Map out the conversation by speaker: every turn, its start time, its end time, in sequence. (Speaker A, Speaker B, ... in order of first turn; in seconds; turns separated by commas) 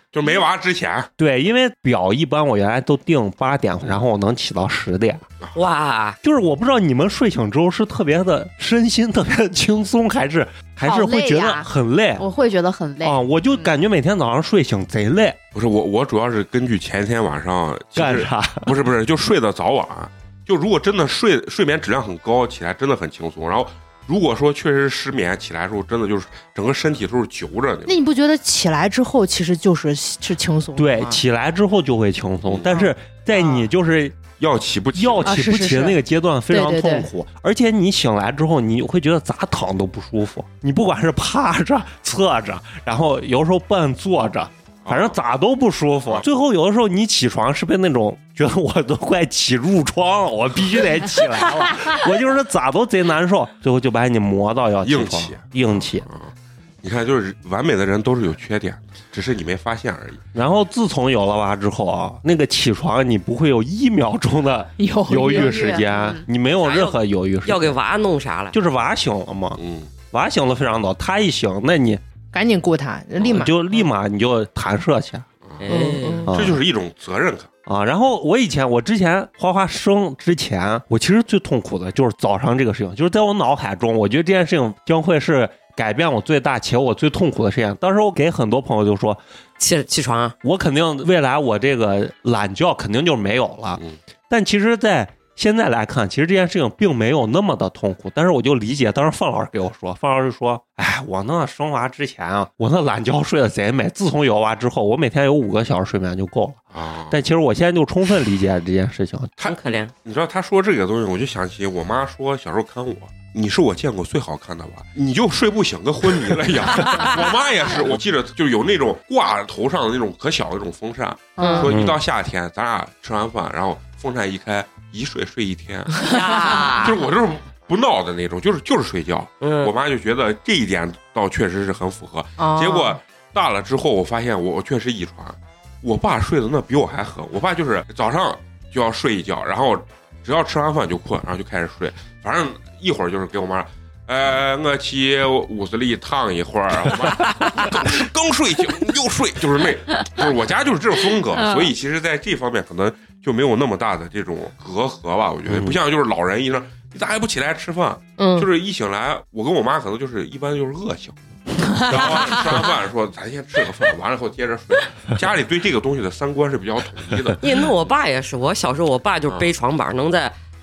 Speaker A: 0.1-1.1, Speaker B: 1.2-5.2, Speaker C: 5.5-6.2, Speaker B: 6.2-12.2, Speaker D: 10.8-13.7, Speaker B: 13.0-15.4, Speaker A: 15.5-28.0, Speaker B: 17.9-18.7, Speaker E: 27.9-31.2, Speaker B: 30.8-34.2, Speaker A: 32.5-32.8, Speaker E: 32.7-33.6, Speaker A: 34.4-35.4, Speaker B: 35.0-56.1, Speaker E: 35.2-37.0, Speaker A: 44.8-45.2, Speaker A: 54.8-56.3, Speaker A: 56.8-60.2, Speaker B: 60.3-67.8, Speaker E: 64.8-65.8, Speaker D: 65.2-66.2, Speaker C: 66.6-68.6, Speaker B: 68.5-72.0, Speaker A: 69.6-69.9, Speaker E: 72.3-73.5, Speaker B: 73.2-75.2, Speaker A: 75.5-77.5, Speaker C: 75.6-76.3, Speaker E: 75.7-76.3, Speaker B: 76.2-76.6, Speaker B: 77.7-89.2, Speaker C: 89.6-90.3, Speaker B: 90.4-109.3, Speaker A: 106.7-107.2, Speaker A: 109.4-161.2, Speaker C: 109.4-109.9, Speaker C: 116.8-117.2, Speaker D: 121.4-121.7, Speaker B: 121.7-122.0, Speaker C: 126.0-127.0, Speaker C: 129.4-129.7, Speaker E: 132.4-133.0, Speaker B: 155.5-155.8, Speaker E: 158.2-158.4, Speaker E: 161.7-162.5, Speaker A: 161.7-167.4, Speaker C: 167.4-170.3